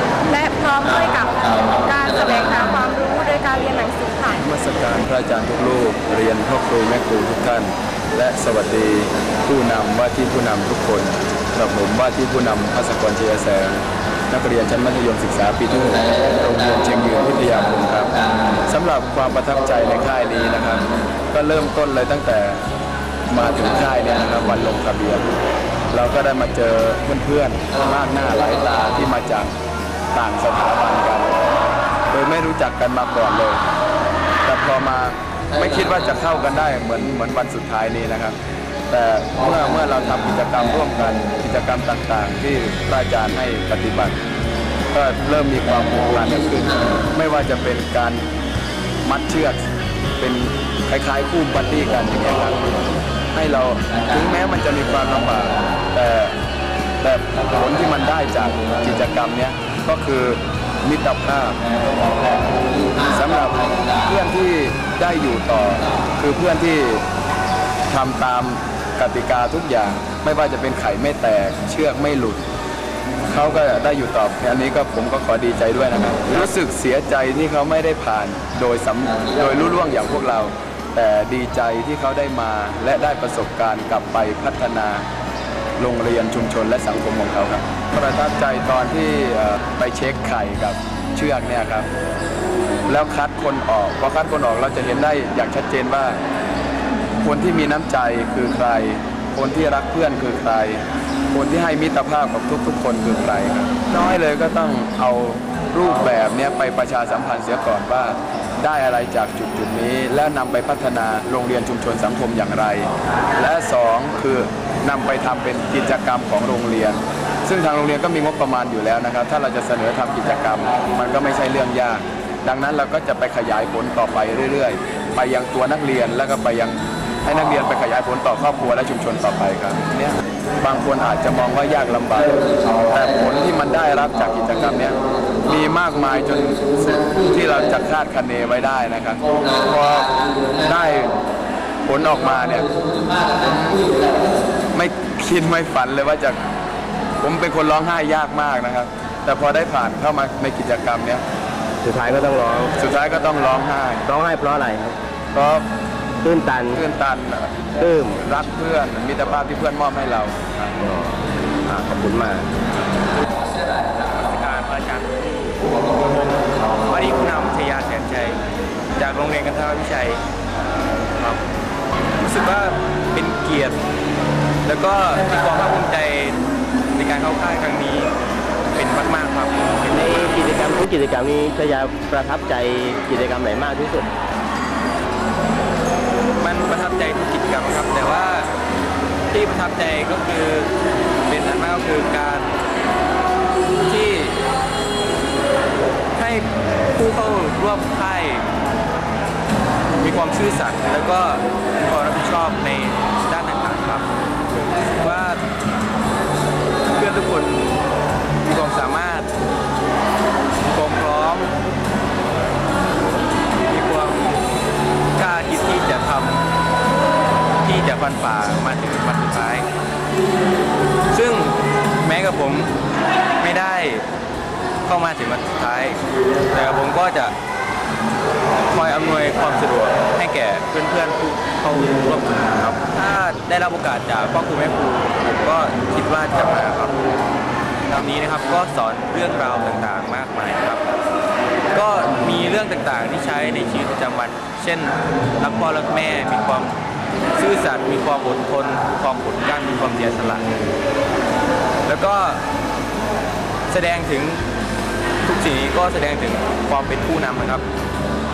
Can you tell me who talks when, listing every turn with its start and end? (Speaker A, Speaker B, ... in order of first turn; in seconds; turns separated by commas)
Speaker A: 0.3-4.4, Speaker B: 4.4-22.6, Speaker B: 23.3-25.3, Speaker B: 25.9-29.5, Speaker B: 30.1-31.4, Speaker B: 32.1-33.6, Speaker B: 34.5-38.4, Speaker B: 38.9-44.2, Speaker B: 44.9-48.3, Speaker B: 49.0-49.6, Speaker B: 50.2-56.4, Speaker B: 57.0-61.6, Speaker B: 63.0-67.0, Speaker B: 67.9-72.4, Speaker B: 73.3-85.0, Speaker B: 85.8-91.9, Speaker B: 92.9-96.2, Speaker B: 97.2-141.1, Speaker B: 141.8-142.7, Speaker B: 144.7-146.4, Speaker B: 147.2-151.2, Speaker C: 151.8-152.8, Speaker B: 152.8-154.1, Speaker C: 154.1-155.0, Speaker B: 155.3-155.7, Speaker C: 156.2-156.8, Speaker B: 156.7-157.7, Speaker C: 157.8-158.2, Speaker B: 158.2-160.7, Speaker C: 160.8-162.5, Speaker D: 164.1-168.4, Speaker D: 169.0-170.2, Speaker D: 171.2-171.4, Speaker D: 172.2-173.8, Speaker D: 174.7-178.1, Speaker D: 178.7-180.4, Speaker C: 179.9-184.1, Speaker D: 186.4-188.5, Speaker D: 189.3-190.7, Speaker D: 191.3-192.5, Speaker D: 193.9-194.4, Speaker D: 196.2-198.5, Speaker D: 200.0-204.1, Speaker D: 205.0-205.4, Speaker D: 206.9-207.8, Speaker D: 208.4-209.3, Speaker D: 210.7-211.5, Speaker D: 213.7-214.4, Speaker D: 215.2-216.4, Speaker D: 217.6-219.7, Speaker D: 221.1-222.7, Speaker D: 223.4-224.1, Speaker D: 224.9-226.0, Speaker D: 226.5-227.3, Speaker D: 228.6-237.0, Speaker D: 237.9-240.9, Speaker D: 241.7-246.7, Speaker D: 247.4-250.5, Speaker D: 251.9-252.4, Speaker D: 253.7-254.4, Speaker D: 255.2-257.6